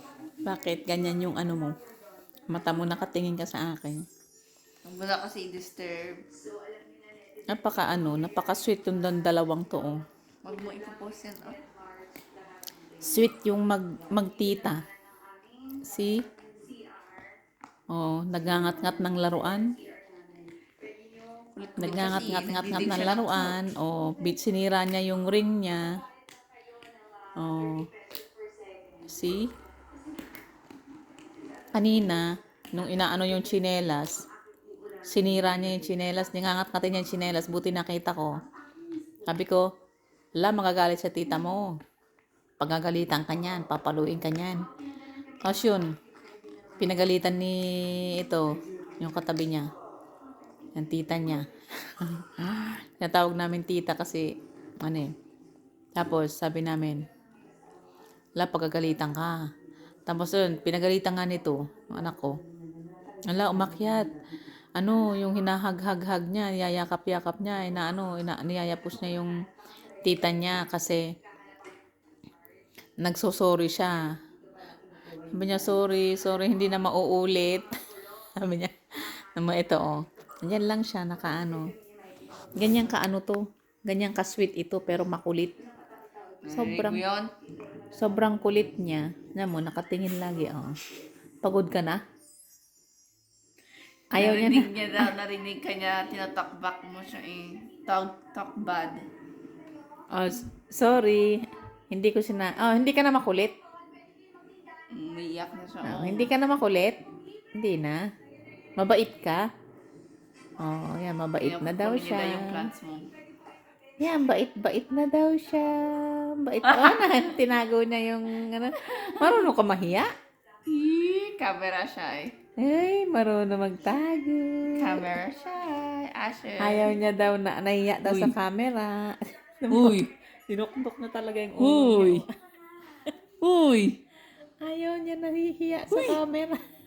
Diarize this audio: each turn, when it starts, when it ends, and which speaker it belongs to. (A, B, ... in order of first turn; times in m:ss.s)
0:00.5-0:01.7 A
0:02.5-0:04.0 A
0:04.8-0:06.2 B
0:07.5-0:10.0 A
0:10.4-0:11.6 B
0:13.0-0:14.8 A
0:15.9-0:16.2 A
0:17.9-0:19.6 A
0:21.6-0:23.5 B
0:21.8-0:25.8 A
0:27.4-0:27.9 A
0:29.1-0:29.5 A
0:31.8-0:34.1 A
0:35.1-0:38.3 A
0:39.3-0:39.7 A
0:40.4-0:41.7 A
0:42.6-0:44.6 A
0:45.4-0:45.9 A
0:46.8-0:48.5 A
0:49.0-0:49.7 A
0:50.8-0:51.4 A
0:52.0-0:54.3 A
0:54.8-0:55.1 A
0:56.0-0:57.0 A
0:58.4-0:59.4 A
1:00.1-1:02.3 A
1:03.3-1:04.1 A
1:04.8-1:09.3 A
1:10.0-1:11.0 A
1:13.0-1:14.0 A
1:15.3-1:17.7 A
1:18.4-1:18.7 A
1:19.4-1:21.7 A
1:22.6-1:25.5 A
1:26.4-1:27.3 B
1:26.5-1:27.0 A
1:28.0-1:30.7 A
1:31.4-1:32.0 A
1:34.1-1:39.0 B
1:34.2-1:35.1 A
1:40.1-1:41.4 A
1:41.9-1:43.5 A
1:44.9-1:46.3 B
1:45.8-1:47.0 A
1:47.6-1:48.0 A
1:48.8-1:49.4 A
1:50.6-1:52.6 A
1:51.4-1:53.1 B
1:54.0-2:00.1 A
1:56.6-1:57.0 B
1:59.0-1:59.5 B
2:00.7-2:02.3 B
2:02.6-2:05.1 A
2:04.8-2:06.9 B
2:06.6-2:12.3 A
2:08.1-2:08.4 B
2:09.7-2:10.1 B
2:11.6-2:12.2 B
2:13.4-2:14.0 B
2:14.6-2:16.6 A
2:15.9-2:16.2 B